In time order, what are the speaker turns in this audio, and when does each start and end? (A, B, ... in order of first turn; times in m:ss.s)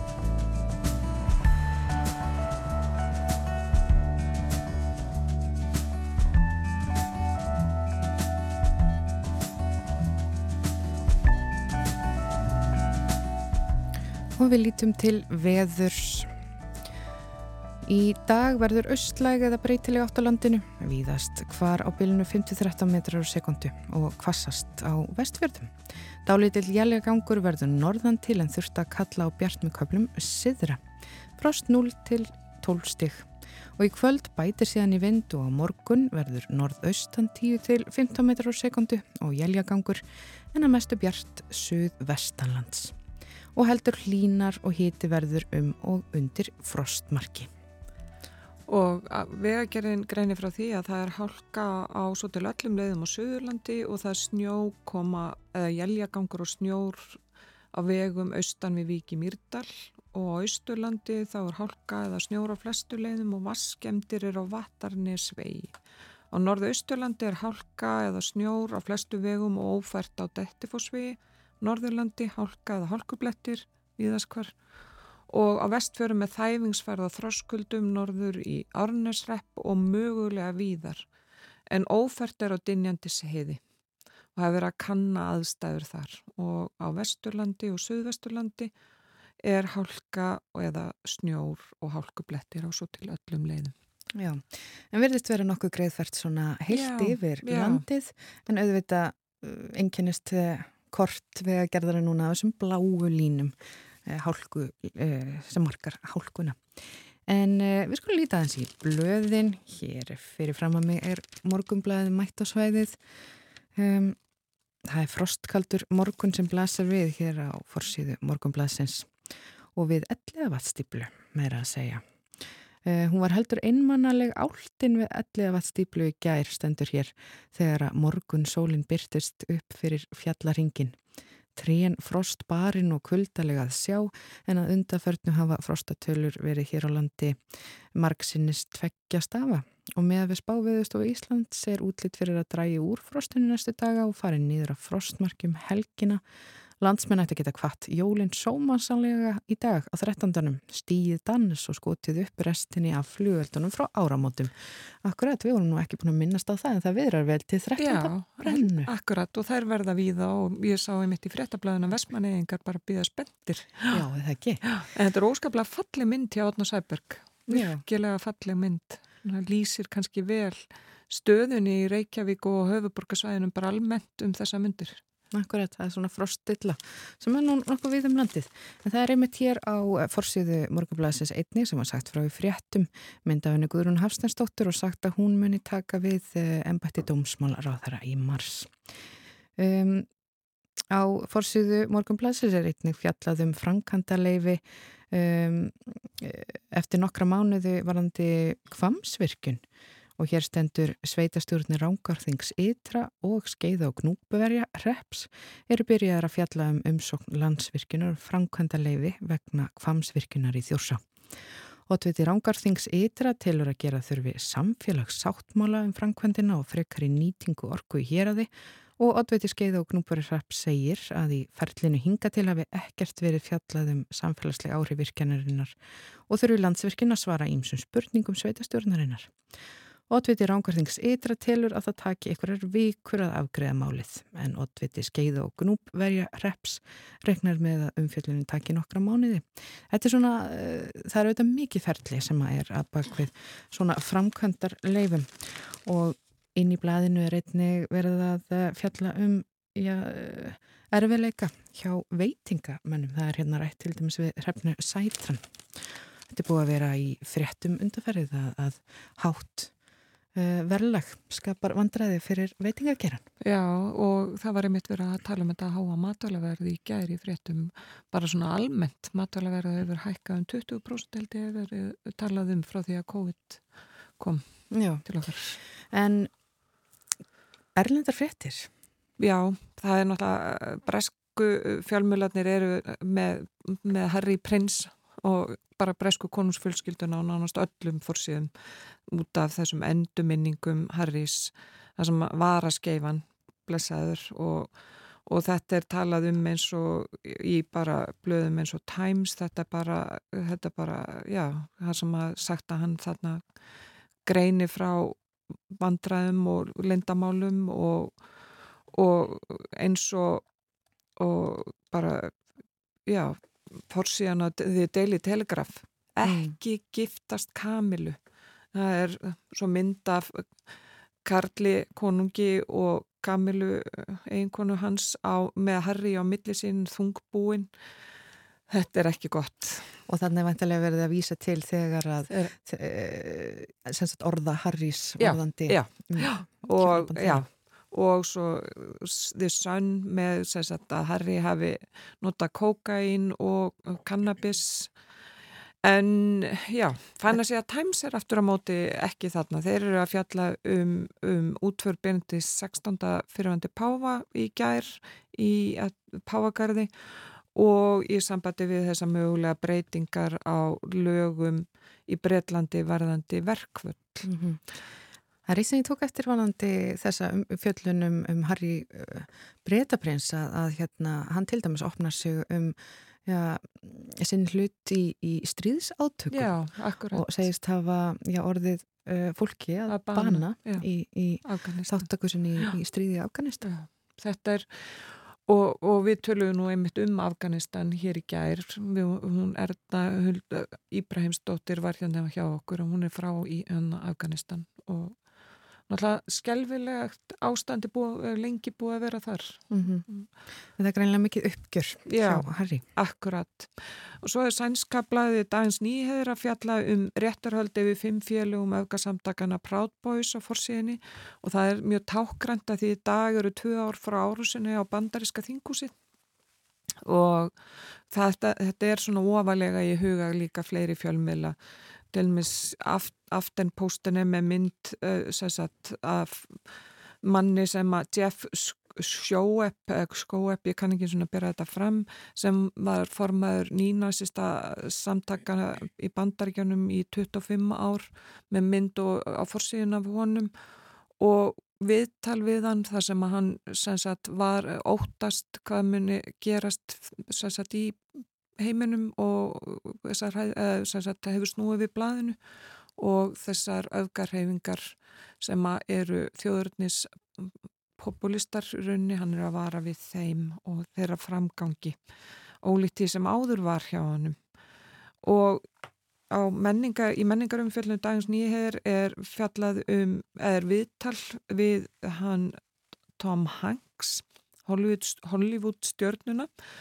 0:14.4-0:16.3 A
0:17.8-0:30.8 A
0:31.4-0:43.0 A
0:43.6-0:47.5 A
0:48.7-0:57.2 B
0:57.7-1:05.8 B
1:06.3-1:14.6 B
1:15.3-1:21.1 B
1:21.7-1:23.6 B
1:24.4-1:28.7 B
1:29.4-1:33.7 B
1:34.2-1:43.6 A
1:36.7-1:37.8 B
1:44.1-1:53.0 A
1:53.8-1:54.2 A
1:54.8-1:59.1 A
1:59.8-2:02.0 A
2:02.8-2:11.0 A
2:11.6-2:17.4 A
2:17.9-2:26.2 A
2:26.8-2:38.9 A
2:37.8-2:44.0 B
2:43.9-2:44.6 A
2:44.7-2:55.0 B
2:47.5-2:47.8 A
2:55.3-3:08.8 A
3:09.6-3:10.1 A
3:10.9-3:19.6 A
3:20.2-3:31.0 A
3:31.9-3:45.8 A
3:46.3-3:49.4 A
3:50.1-4:19.7 A
4:20.4-4:23.2 A
4:23.4-4:35.6 B
4:34.7-4:35.0 A
4:35.9-4:36.3 A
4:37.8-4:38.7 A
4:39.2-5:03.6 B
5:04.2-5:08.2 B
5:08.9-5:10.4 B
5:11.2-5:12.4 B
5:13.1-5:18.2 B
5:16.2-5:16.5 A
5:18.7-5:20.6 B
5:21.2-5:27.8 B
5:28.7-5:30.0 B
5:30.1-5:37.4 A
5:32.3-5:32.5 B
5:35.2-5:45.0 B
5:45.8-6:04.3 B
6:04.2-6:04.6 A
6:05.5-6:23.7 A
6:16.3-6:17.5 B
6:19.9-6:20.9 B
6:21.4-6:22.1 B
6:23.6-6:35.3 B
6:35.9-6:40.3 B
6:39.7-6:40.1 A
6:40.8-6:42.8 A
6:42.1-6:55.9 B
6:57.0-7:01.6 B
7:02.1-7:20.5 B
7:21.2-7:32.4 B
7:33.0-7:42.1 B
7:42.6-7:44.4 B
7:45.2-7:45.7 B
7:46.3-7:52.6 B
7:53.2-7:56.5 B